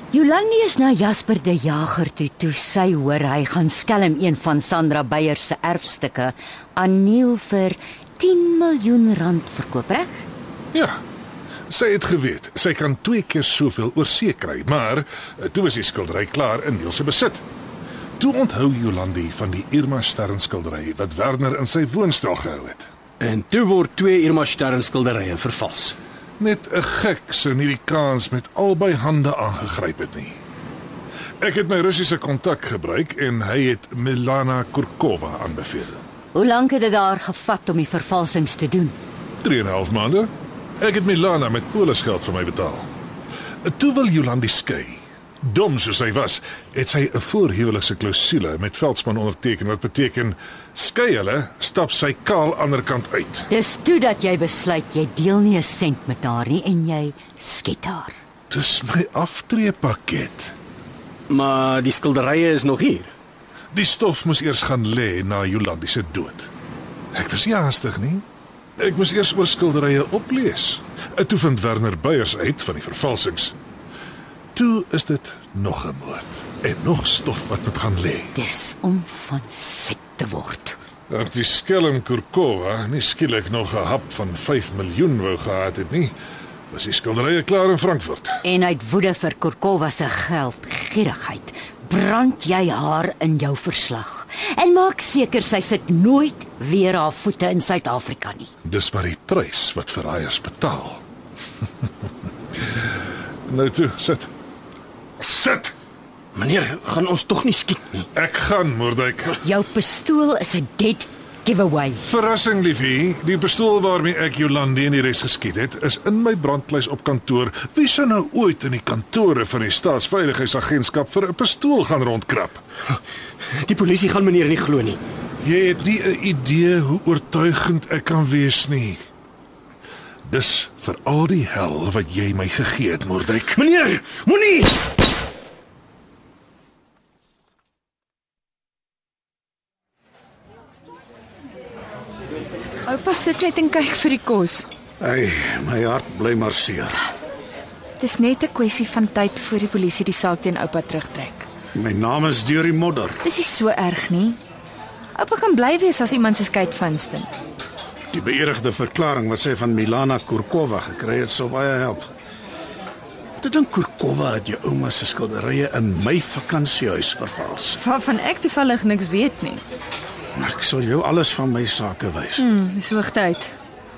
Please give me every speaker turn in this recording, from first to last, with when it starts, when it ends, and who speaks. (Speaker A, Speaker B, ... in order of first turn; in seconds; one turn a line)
Speaker A: 0.1-10.3
Speaker B: 10.7-11.0
Speaker B: 11.7-17.4
Speaker B: 18.2-22.9
Speaker C: 23.2-26.0
Speaker B: 26.4-30.4
Speaker B: 31.4-36.0
Speaker A: 36.3-39.0
Speaker B: 39.4-42.9
Speaker B: 43.6-53.5
Speaker A: 53.5-58.2
Speaker B: 58.5-60.5
Speaker C: 61.3-63.1
Speaker B: 63.7-66.5
Speaker B: 67.1-68.2
Speaker B: 68.8-73.5
Speaker B: 74.5-78.3
Speaker A: 78.3-80.8
Speaker B: 81.1-86.1
Speaker B: 86.7-88.4
Speaker A: 88.4-98.5
Speaker B: 98.7-101.0
Speaker B: 103.5-104.3
Speaker B: 105.2-105.7
Speaker C: 106.3-108.1
Speaker B: 108.2-109.4
Speaker A: 109.4-112.0
Speaker B: 112.0-122.6
Speaker C: 123.6-125.0
Speaker B: 125.4-129.0
Speaker B: 130.2-133.6
Speaker C: 133.6-134.8
Speaker D: 142.9-144.7
Speaker E: 145.0-147.0
Speaker D: 148.0-151.5
Speaker E: 151.7-153.2
Speaker D: 153.2-154.4
Speaker D: 155.2-157.3
Speaker E: 158.1-162.1
Speaker E: 163.4-167.8
Speaker D: 167.8-169.6
Speaker E: 170.4-172.5
Speaker D: 172.4-173.5